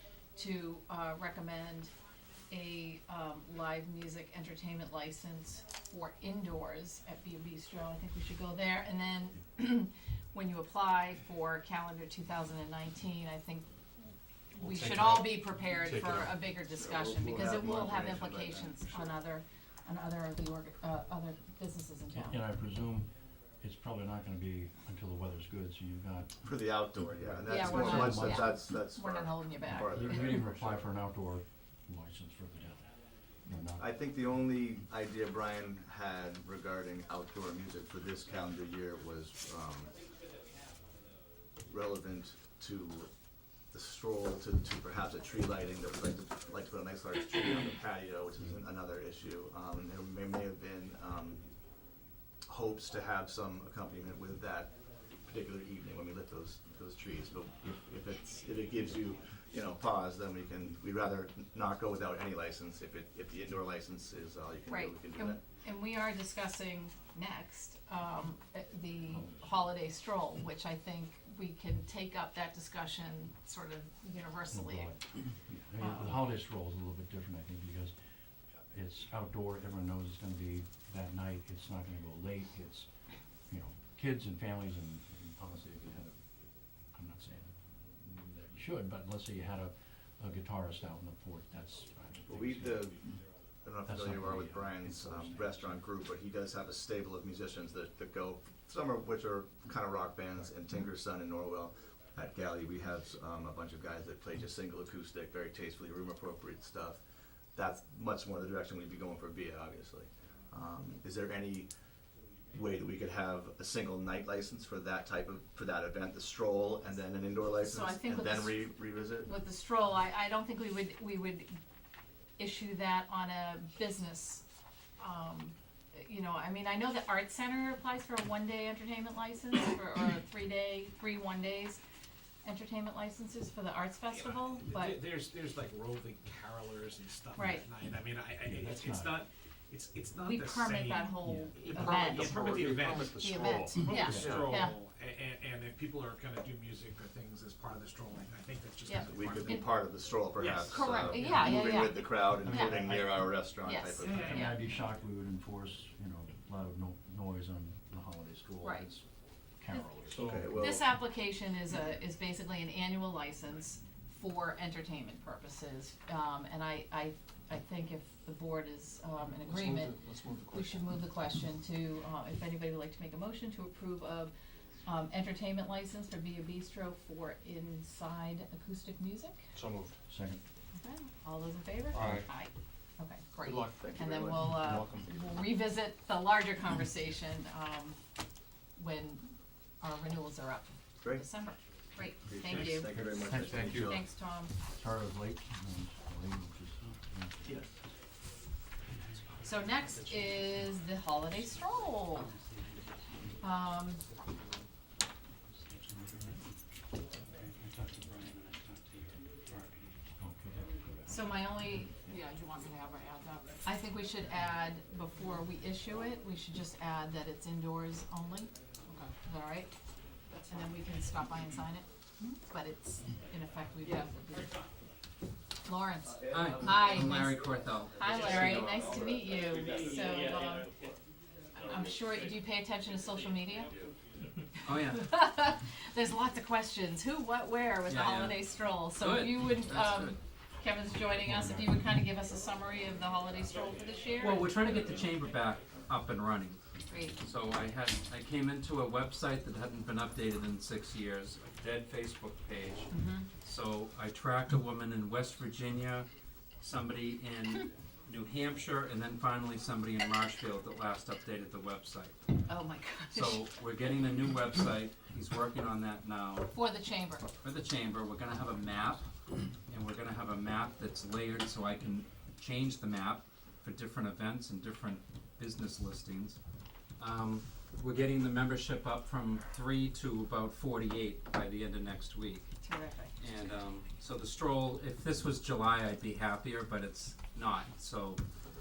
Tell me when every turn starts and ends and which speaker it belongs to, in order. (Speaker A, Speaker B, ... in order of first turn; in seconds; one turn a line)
Speaker A: 0.4-1.9
Speaker A: 2.5-22.4
Speaker B: 14.6-16.4
Speaker C: 16.8-19.1
Speaker D: 22.1-23.1
Speaker D: 23.6-26.5
Speaker C: 26.4-30.8
Speaker D: 27.4-28.5
Speaker A: 27.4-30.3
Speaker D: 29.7-32.8
Speaker D: 33.5-33.8
Speaker C: 33.8-39.9
Speaker C: 41.7-43.1
Speaker C: 43.7-51.5
Speaker C: 52.5-65.4
Speaker A: 64.7-74.9
Speaker D: 74.5-77.9
Speaker A: 75.8-76.2
Speaker D: 78.7-82.9
Speaker D: 83.5-86.2
Speaker D: 86.9-93.0
Speaker C: 92.3-93.0
Speaker C: 93.6-107.0
Speaker D: 93.9-95.7
Speaker C: 107.5-111.7
Speaker C: 112.5-119.3
Speaker A: 117.6-118.7
Speaker A: 119.2-121.5
Speaker A: 122.4-124.4
Speaker A: 125.0-131.8
Speaker A: 132.4-135.0
Speaker E: 134.1-143.2
Speaker A: 137.4-137.7
Speaker D: 138.5-139.2
Speaker A: 140.2-144.8
Speaker D: 141.2-141.5
Speaker B: 142.1-144.7
Speaker E: 143.8-149.7
Speaker D: 144.0-144.3
Speaker A: 148.9-149.6
Speaker C: 149.1-154.4
Speaker E: 150.3-151.5
Speaker A: 150.7-153.0
Speaker D: 152.3-153.3
Speaker A: 153.6-154.6
Speaker E: 154.0-154.5
Speaker D: 154.0-159.1
Speaker A: 158.6-158.9
Speaker D: 159.6-160.6
Speaker B: 160.1-160.8
Speaker C: 160.3-160.8
Speaker A: 160.6-174.3
Speaker B: 169.4-170.8
Speaker A: 174.8-179.4
Speaker B: 179.5-180.0
Speaker D: 180.1-180.4
Speaker A: 180.8-188.0
Speaker B: 181.9-182.2
Speaker B: 183.4-185.1
Speaker C: 183.8-184.8
Speaker A: 188.8-194.5
Speaker C: 192.2-194.0
Speaker D: 192.8-194.0
Speaker D: 194.7-197.7
Speaker C: 197.4-197.7
Speaker F: 198.9-200.7
Speaker A: 199.4-202.3
Speaker F: 202.2-202.9
Speaker A: 203.4-204.0
Speaker F: 205.5-206.4
Speaker F: 207.3-210.0
Speaker D: 210.2-211.9
Speaker A: 211.1-219.8
Speaker A: 220.5-224.6
Speaker A: 225.7-230.7
Speaker F: 226.3-228.9
Speaker B: 229.6-230.8
Speaker A: 231.5-233.8
Speaker F: 234.6-235.1
Speaker A: 234.7-244.8
Speaker F: 237.9-238.4
Speaker F: 239.0-240.2
Speaker D: 241.2-241.7
Speaker F: 244.2-246.6
Speaker A: 246.9-247.2
Speaker F: 247.2-256.1
Speaker A: 252.9-253.3
Speaker F: 256.6-262.2
Speaker A: 262.5-263.4
Speaker F: 263.1-266.5
Speaker A: 266.5-267.2
Speaker F: 267.4-269.0
Speaker F: 269.7-276.4
Speaker F: 277.0-282.5
Speaker A: 282.6-283.1
Speaker F: 283.2-288.2